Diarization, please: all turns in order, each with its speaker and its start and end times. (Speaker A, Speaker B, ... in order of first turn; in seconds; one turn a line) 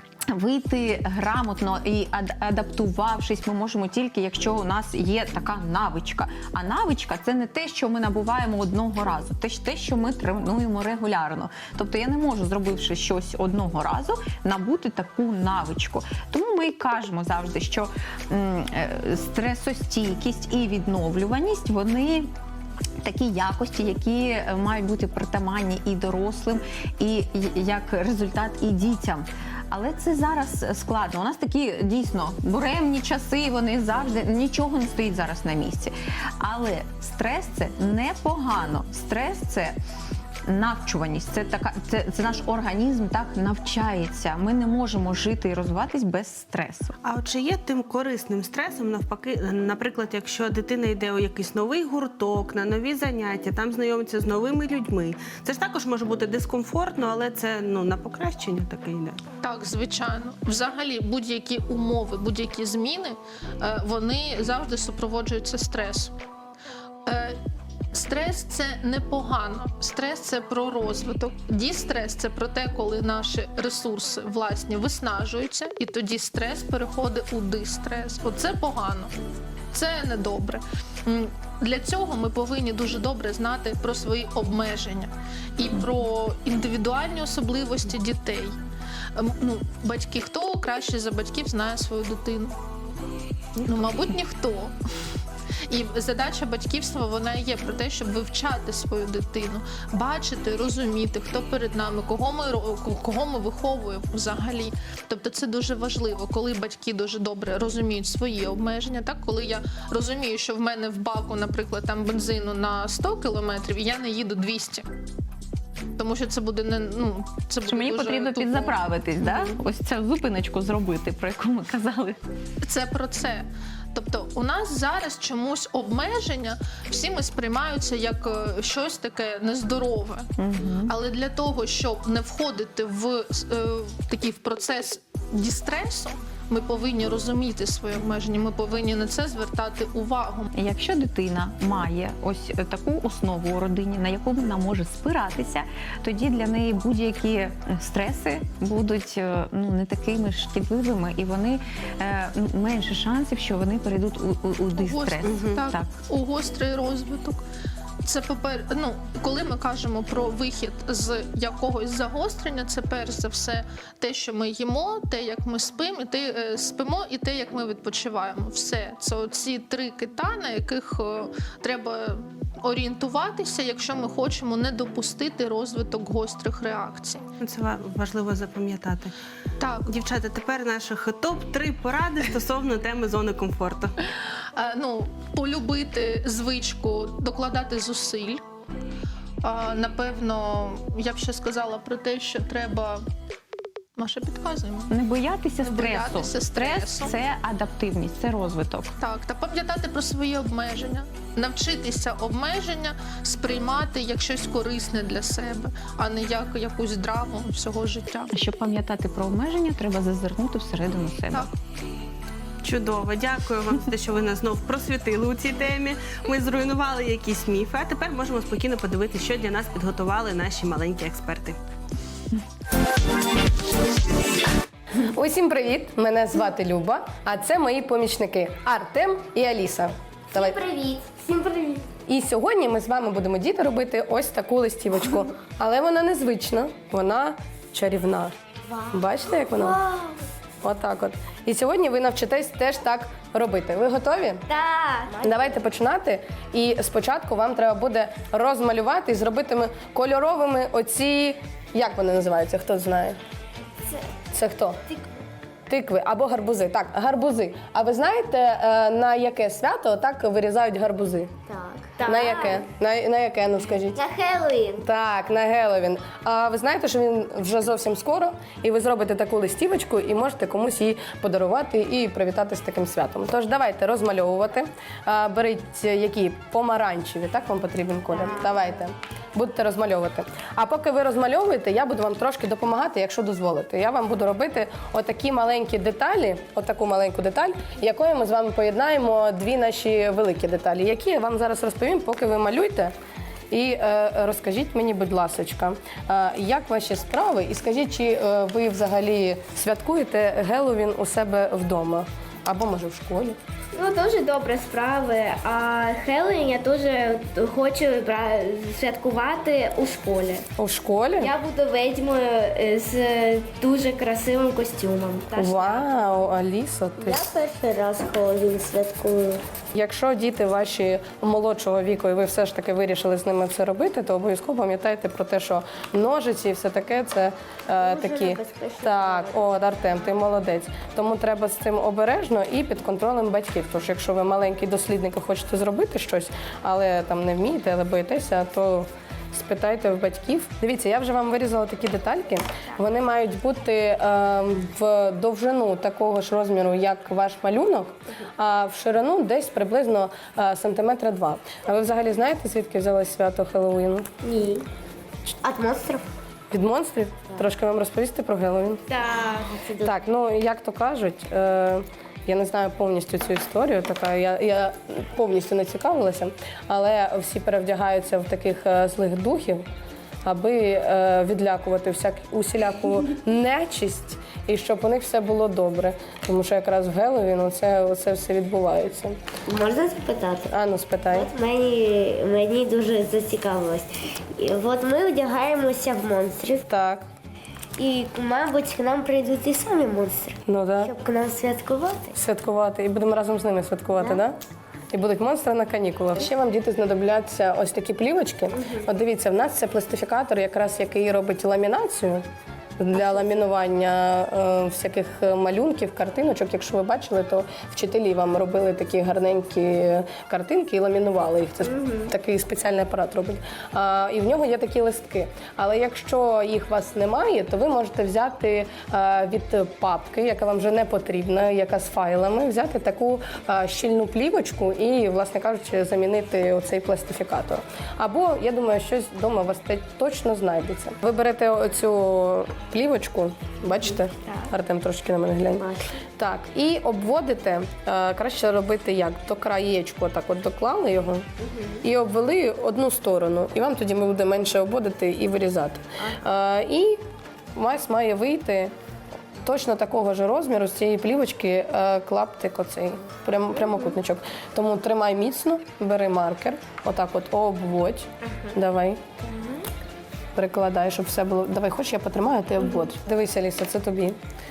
Speaker A: 0.3-22.3
Speaker A: 23.0-39.8
Speaker A: 40.5-47.0
Speaker B: 47.0-59.2
Speaker C: 59.4-66.1
Speaker C: 67.0-67.4
Speaker C: 67.9-79.1
Speaker C: 79.7-88.6
Speaker C: 89.2-92.6
Speaker C: 93.6-94.8
Speaker C: 95.7-114.9
Speaker C: 116.0-119.5
Speaker A: 117.7-122.2
Speaker C: 122.6-130.3
Speaker A: 130.4-130.9
Speaker C: 130.9-140.5
Speaker A: 140.5-155.9
Speaker C: 154.8-157.4
Speaker B: 155.3-155.6
Speaker C: 158.0-177.3
Speaker B: 177.4-179.1
Speaker C: 179.6-179.9
Speaker B: 179.9-184.0
Speaker C: 184.6-188.4
Speaker C: 189.4-193.0
Speaker C: 194.0-195.0
Speaker A: 194.9-198.9
Speaker C: 195.6-197.2
Speaker C: 199.0-208.3
Speaker A: 208.3-211.5
Speaker B: 212.6-221.6
Speaker D: 225.0-230.6
Speaker E: 230.3-231.9
Speaker D: 232.1-238.3
Speaker E: 238.7-240.2
Speaker D: 238.9-239.8
Speaker D: 240.6-244.4
Speaker E: 244.5-245.6
Speaker D: 245.2-253.2
Speaker D: 254.3-254.8
Speaker D: 255.7-261.3
Speaker E: 261.5-262.6
Speaker D: 262.0-264.0
Speaker E: 263.9-264.9
Speaker D: 264.8-292.9
Speaker E: 278.2-278.6
Speaker D: 293.5-303.4
Speaker E: 303.7-310.5
Speaker D: 310.6-311.3
Speaker E: 311.2-316.2
Speaker D: 315.4-317.3
Speaker E: 317.0-319.4
Speaker D: 319.7-354.1
Speaker E: 327.7-329.4
Speaker E: 354.2-354.7
Speaker E: 355.4-356.1
Speaker D: 356.5-358.8
Speaker E: 358.9-360.0
Speaker D: 359.8-369.6
Speaker D: 370.2-379.2
Speaker E: 379.5-380.5
Speaker D: 380.5-381.3
Speaker E: 381.1-386.6
Speaker D: 386.7-387.1
Speaker E: 387.8-392.1
Speaker D: 390.5-390.9
Speaker D: 392.1-394.4
Speaker D: 394.9-402.3
Speaker E: 398.6-398.9
Speaker D: 402.8-435.7
Speaker E: 411.7-412.1
Speaker E: 435.6-436.0
Speaker D: 436.2-441.3
Speaker E: 441.4-441.8
Speaker D: 441.8-447.0
Speaker D: 447.6-448.7
Speaker D: 449.4-459.0
Speaker E: 459.2-459.6
Speaker D: 460.4-464.2
Speaker E: 462.6-462.9